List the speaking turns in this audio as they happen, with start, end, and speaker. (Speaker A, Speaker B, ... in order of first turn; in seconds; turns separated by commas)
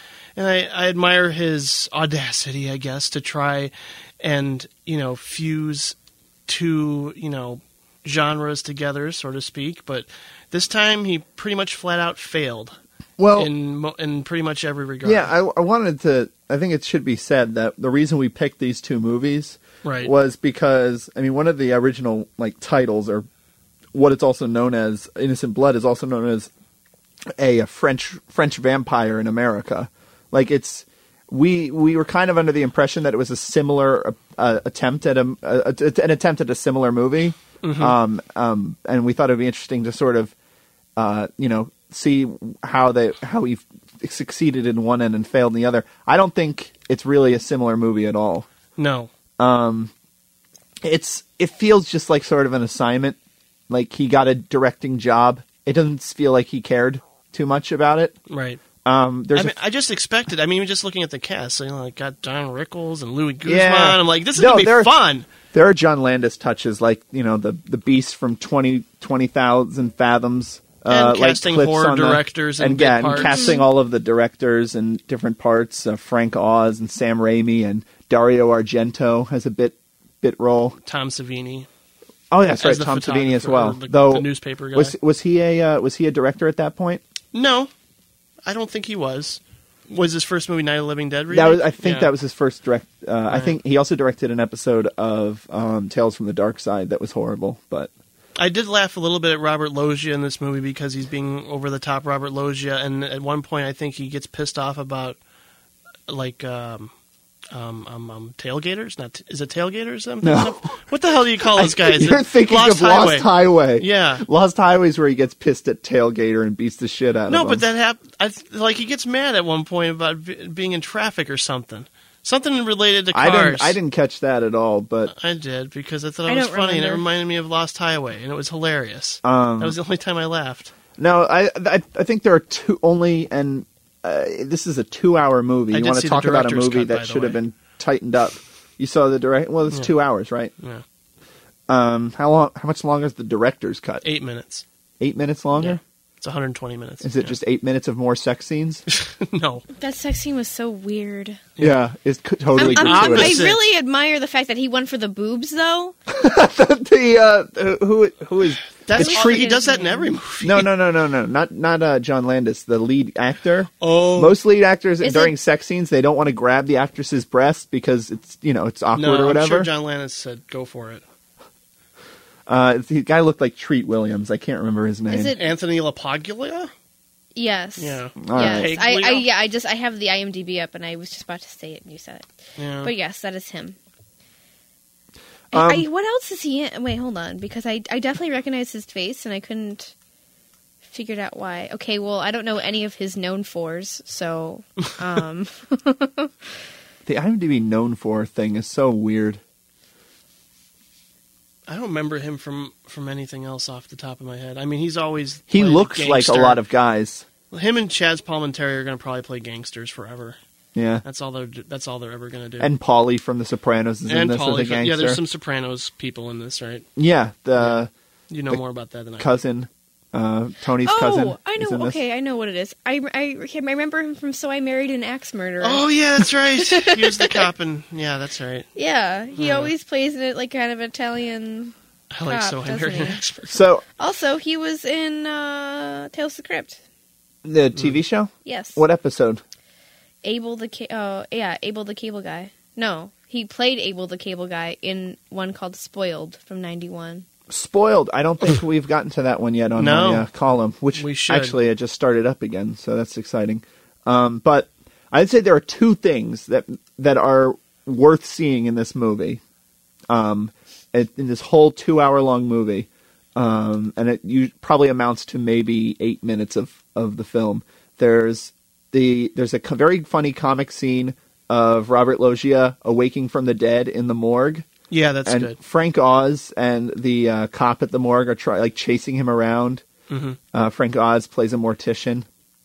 Speaker A: 0.3-5.9, Speaker A: 6.5-12.8, Speaker B: 13.2-13.5, Speaker A: 13.3-15.3, Speaker B: 15.0-23.3, Speaker A: 19.8-20.1, Speaker B: 23.9-26.5, Speaker B: 27.4-40.3, Speaker A: 37.6-37.9, Speaker B: 41.0-48.5, Speaker A: 48.8-49.1, Speaker B: 49.4-49.9, Speaker B: 50.8-53.2, Speaker B: 53.7-58.1, Speaker A: 58.3-58.6, Speaker B: 58.8-59.5, Speaker A: 59.3-65.3, Speaker B: 63.4-64.9, Speaker B: 65.5-80.8, Speaker A: 70.9-73.5, Speaker C: 73.1-73.6, Speaker A: 80.8-81.7, Speaker B: 82.3-87.0, Speaker A: 82.6-84.9, Speaker A: 87.3-87.7, Speaker A: 88.5-92.1, Speaker B: 91.3-97.9, Speaker A: 93.3-93.6, Speaker A: 98.4-105.2, Speaker A: 106.1-106.9, Speaker A: 107.5-114.2, Speaker B: 110.2-110.6, Speaker B: 111.5-117.6, Speaker A: 117.3-123.8, Speaker B: 123.1-125.1, Speaker A: 125.1-130.7, Speaker C: 126.3-127.0, Speaker B: 129.2-129.8, Speaker B: 131.0-140.5, Speaker A: 135.7-137.4, Speaker B: 141.7-144.0, Speaker A: 144.0-144.6, Speaker B: 145.0-145.8, Speaker A: 145.5-147.3, Speaker B: 147.0-148.8, Speaker A: 148.9-149.7, Speaker C: 149.8-151.4, Speaker B: 151.6-153.5, Speaker A: 152.6-153.6, Speaker C: 152.6-155.9, Speaker B: 156.1-159.5, Speaker A: 158.8-160.7, Speaker C: 158.9-160.1, Speaker B: 160.4-169.7, Speaker A: 163.8-164.4, Speaker C: 165.0-165.3, Speaker A: 168.9-171.0, Speaker B: 172.5-175.3, Speaker C: 175.1-175.4, Speaker A: 175.3-176.7, Speaker C: 177.3-182.3, Speaker A: 177.8-179.3, Speaker B: 178.2-178.7, Speaker A: 182.6-182.9, Speaker C: 182.8-183.8, Speaker B: 185.5-185.8, Speaker C: 185.5-189.9, Speaker C: 190.9-196.3, Speaker B: 197.1-199.4, Speaker A: 201.7-206.6, Speaker B: 205.5-207.2, Speaker A: 207.5-210.4, Speaker B: 210.7-211.0, Speaker A: 211.0-212.7, Speaker B: 212.6-215.2, Speaker A: 214.1-216.9, Speaker B: 216.9-217.9, Speaker A: 217.6-219.3, Speaker B: 219.2-222.0, Speaker C: 220.8-225.8, Speaker A: 225.6-228.7, Speaker C: 226.6-227.4, Speaker C: 228.7-231.7, Speaker A: 229.3-229.7, Speaker A: 232.1-233.6, Speaker C: 232.2-233.2, Speaker B: 233.5-233.8, Speaker C: 234.0-236.8, Speaker B: 237.4-239.4, Speaker C: 238.4-238.8, Speaker C: 240.2-247.2, Speaker B: 247.5-259.4, Speaker A: 249.8-250.3, Speaker A: 250.9-251.6, Speaker B: 260.1-274.7, Speaker A: 274.9-275.6, Speaker B: 275.2-279.8, Speaker A: 280.1-280.4, Speaker B: 280.5-282.2